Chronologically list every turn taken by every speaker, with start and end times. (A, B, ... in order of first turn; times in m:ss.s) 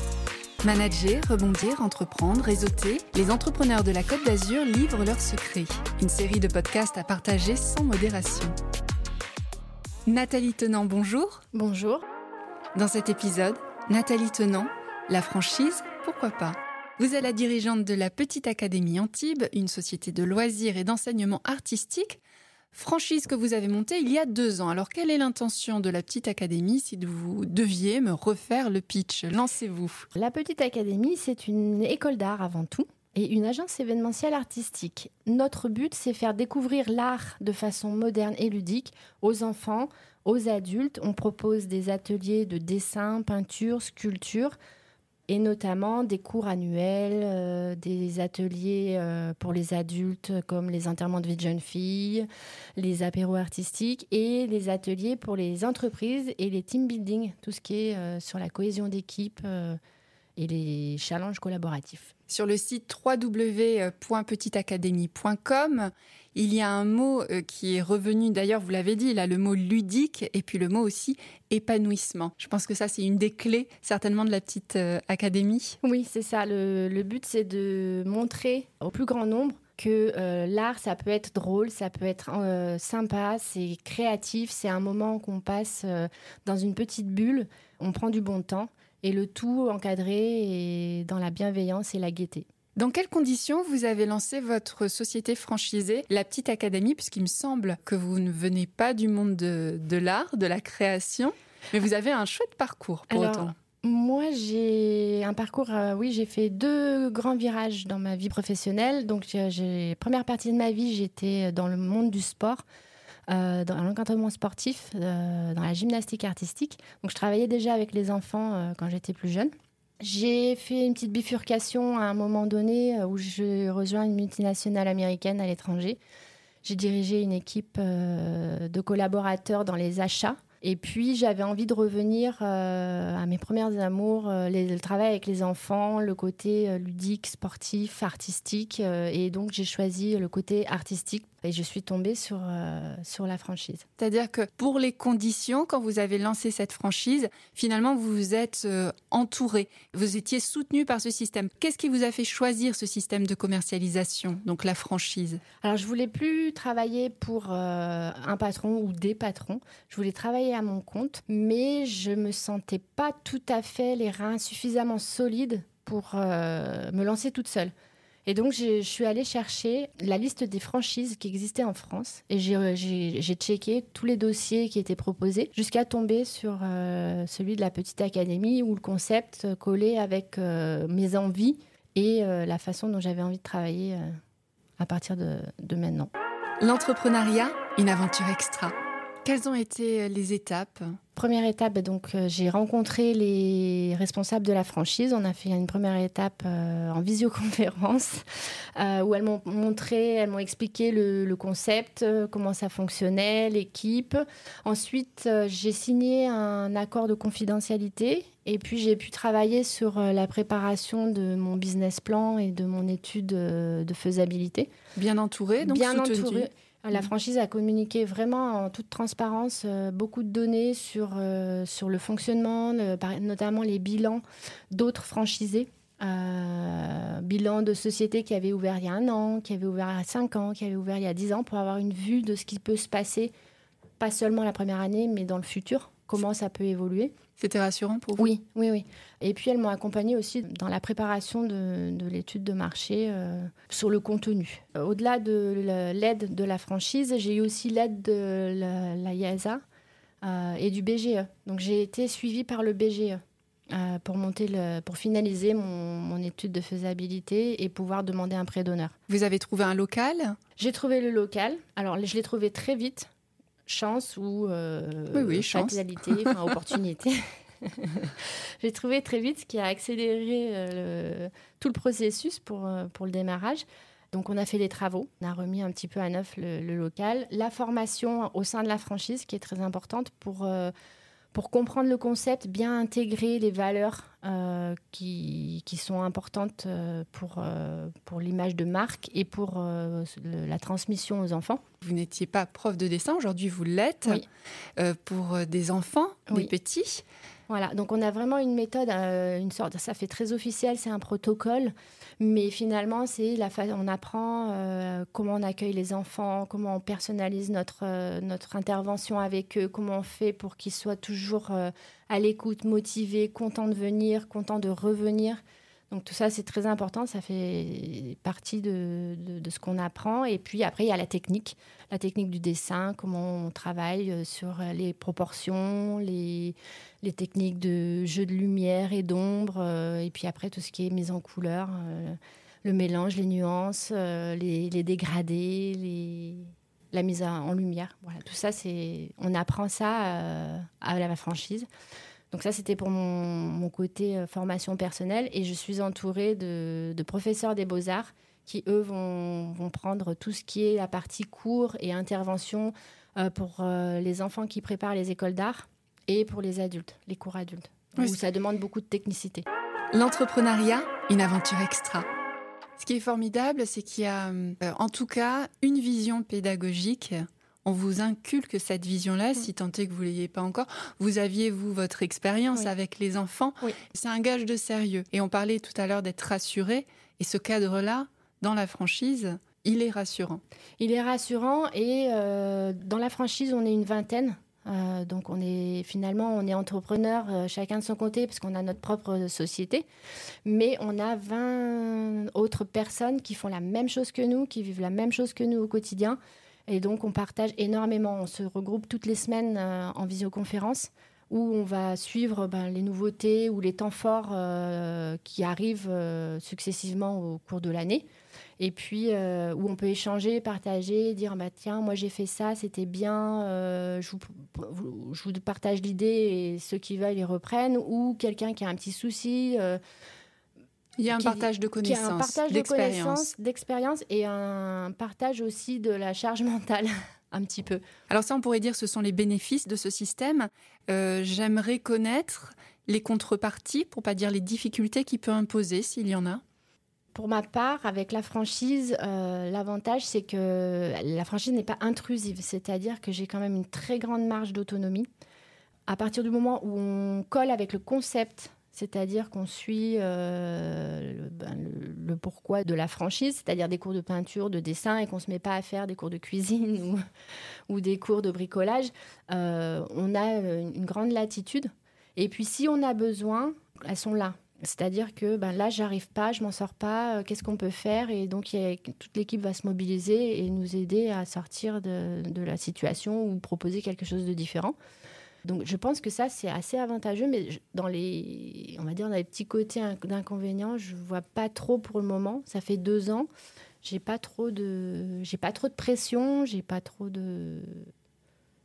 0:00.6-0:08.6 A
0:10.1-0:11.4 A
0:11.5-0:12.0 B
0:12.8-0:22.2 A
0:22.7-0:30.1 A
0:30.2-0:44.6 B
0:45.3-0:52.3 B
0:52.8-0:59.8 B
1:00.4-1:02.1 B
1:02.3-1:15.8 A
1:15.8-1:32.5 B
1:32.8-1:43.6 A
1:43.1-1:52.6 B
1:53.3-2:06.0 B
2:06.6-2:23.8 B
2:24.0-2:35.4 A
2:35.6-2:47.7 B
2:48.2-3:04.2 B
3:04.8-3:06.1 B
3:06.6-3:11.0 A
3:11.2-3:18.2 B
3:18.8-3:34.7 B
3:35.0-3:36.5 A
3:35.6-3:53.3 B
3:54.0-3:57.1 B
3:57.4-3:58.3 A
3:58.2-4:09.6 B
4:10.2-4:19.0 B
4:19.1-4:20.4 A
4:20.6-4:23.1 B
4:23.7-4:40.7 B
4:25.1-4:26.3 A
4:41.3-4:51.6 B
4:51.8-4:54.3 A
4:54.8-4:57.0 A
4:57.5-5:41.7 B
5:42.3-5:59.5 B
5:59.9-6:02.1 A
6:02.8-6:20.4 A
6:20.8-6:29.9 B
6:30.4-6:48.1 B
6:48.6-6:59.8 B
7:01.0-7:03.3 A
7:01.1-7:07.8 B
7:08.1-7:16.4 A
7:17.1-7:25.1 B
7:25.9-7:37.0 B
7:37.7-7:54.8 B
7:55.4-8:03.3 B
8:03.8-8:07.9 B